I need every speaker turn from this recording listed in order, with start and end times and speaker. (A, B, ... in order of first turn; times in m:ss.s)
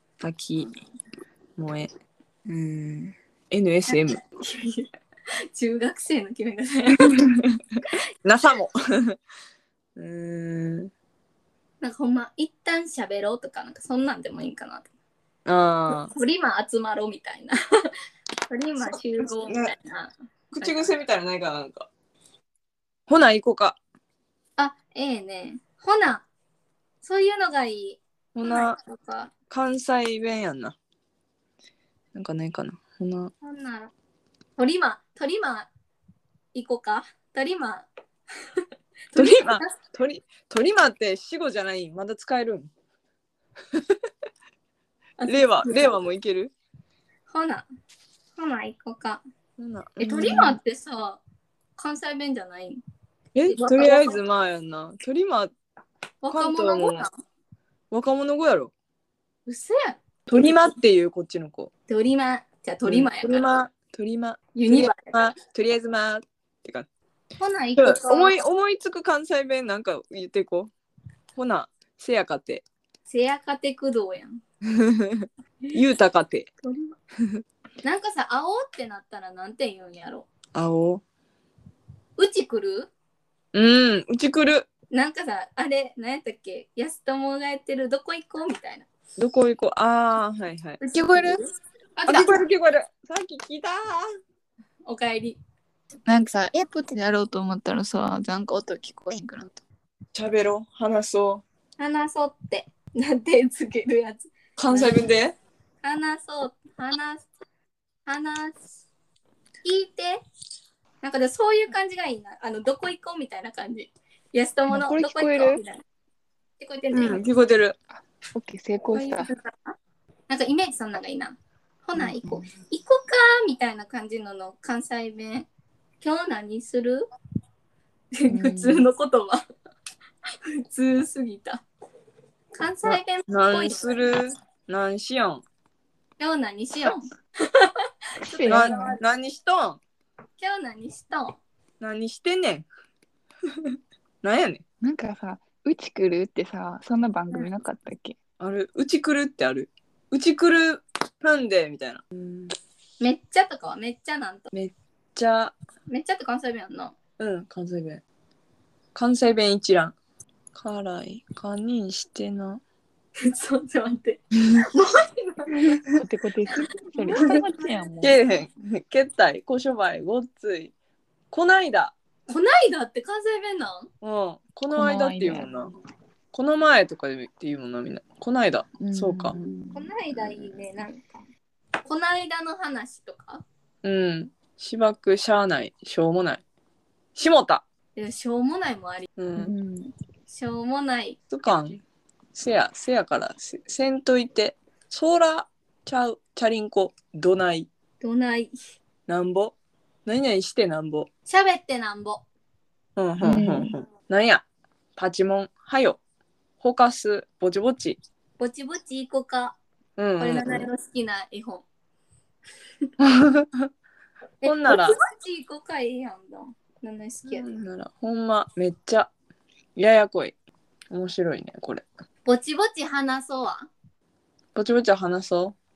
0:00.2-0:00.7 A
0:01.6-0:01.9 A
0:02.5-0:03.1 B
0:03.5-0:04.2 A
0:03.9-0:04.9 C
0:05.5-0:07.2 C
0:08.2-0:09.2 A
0:10.0-0:10.9 A
0:11.8-0:14.9 C
0:15.5-0:16.1 A
0:16.1-0:17.9 C
0:18.5-0:20.9 C
0:18.8-0:19.7 A
0:20.5-0:21.9 A
0:23.1-0:23.8 A
0:24.6-0:26.3 C
0:27.0-0:29.3 C
0:28.4-0:28.8 A
0:29.5-0:30.8 A
0:32.2-0:33.3 A
0:33.4-0:33.9 C
0:34.6-0:35.7 C
0:36.5-0:37.9 C
0:39.1-0:39.7 C
0:39.2-0:42.7 A
0:45.2-0:46.0 C
0:45.3-0:46.5 A
0:47.3-0:47.7 C
0:48.4-0:49.2 C
0:49.6-0:50.4 A
0:50.0-0:51.2 C
0:50.1-0:50.6 B
0:51.8-0:52.8 C
0:53.4-0:55.5 A
0:53.5-0:54.2 C
0:56.2-0:57.2 C
0:56.3-0:57.1 A
0:57.9-0:58.7 A
0:59.5-1:00.0 C
1:00.3-1:01.7 A
1:01.9-1:03.5 C
1:02.8-1:06.9 A
1:04.6-1:05.1 C
1:07.4-1:08.4 C
1:07.8-1:10.7 A
1:11.4-1:12.6 A
1:13.1-1:14.4 C
1:14.8-1:16.5 A
1:16.6-1:16.9 C
1:17.8-1:20.3 C
1:20.5-1:21.0 A
1:22.2-1:22.9 C
1:23.5-1:24.7 A
1:24.9-1:28.9 C
1:29.2-1:30.8 A
1:30.8-1:31.4 C
1:30.9-1:31.4 B
1:32.0-1:32.4 C
1:32.1-1:34.0 A
1:34.9-1:35.4 C
1:36.1-1:39.6 B
1:40.1-1:41.4 A
1:41.8-1:45.1 C
1:44.6-1:45.4 A
1:45.8-1:47.3 C
1:48.1-1:48.8 C
1:49.6-1:50.2 C
1:51.0-1:55.8 C
1:54.7-1:55.6 B
1:56.6-1:57.2 C
1:56.9-1:57.8 A
1:57.9-1:59.3 B
1:58.9-1:59.8 C
2:00.3-2:05.5 C
2:02.0-2:02.5 B
2:06.0-2:07.1 C
2:08.1-2:09.4 C
2:08.3-2:08.9 B
2:10.6-2:11.6 C
2:12.6-2:14.1 C
2:12.9-2:15.4 A
2:16.2-2:19.0 C
2:18.3-2:19.0 B
2:18.5-2:19.8 A
2:20.4-2:21.4 C
2:21.8-2:22.7 A
2:24.2-2:24.6 A
2:24.8-2:28.2 B
2:28.4-2:32.5 A
2:33.0-2:34.5 C
2:34.5-2:35.5 A
2:35.9-2:37.0 C
2:37.2-2:38.0 A
2:39.0-2:39.9 A
2:40.6-2:42.6 A
2:43.2-2:45.8 C
2:45.9-2:48.2 B
2:47.0-2:47.8 C
2:48.0-2:50.7 A
2:51.3-2:51.9 A
2:52.3-2:53.9 C
2:54.0-2:55.7 A
2:54.7-2:55.5 B
2:56.3-2:59.4 A
2:58.8-3:00.7 B
2:59.7-3:01.2 C
3:01.8-3:03.4 C
3:03.8-3:06.4 A
3:07.2-3:07.6 A
3:08.0-3:09.1 C
3:09.2-3:09.5 A
3:09.4-3:09.9 B
3:10.3-3:11.2 C
3:11.3-3:11.8 A
3:12.4-3:17.7 A
3:18.0-3:18.6 C
3:19.1-3:19.5 A
3:20.1-3:21.1 A
3:21.3-3:22.2 C
3:23.0-3:24.4 A
3:23.2-3:23.7 B
3:25.0-3:26.0 A
3:26.6-3:28.0 A
3:28.4-3:29.6 C
3:30.0-3:30.7 A
3:30.2-3:31.6 C
3:33.0-3:33.7 A
3:34.4-3:37.5 C
3:34.4-3:35.0 A
3:37.3-3:39.1 A
3:39.8-3:40.3 A
3:40.9-3:41.9 A
3:42.2-3:43.7 C
3:44.6-3:45.6 A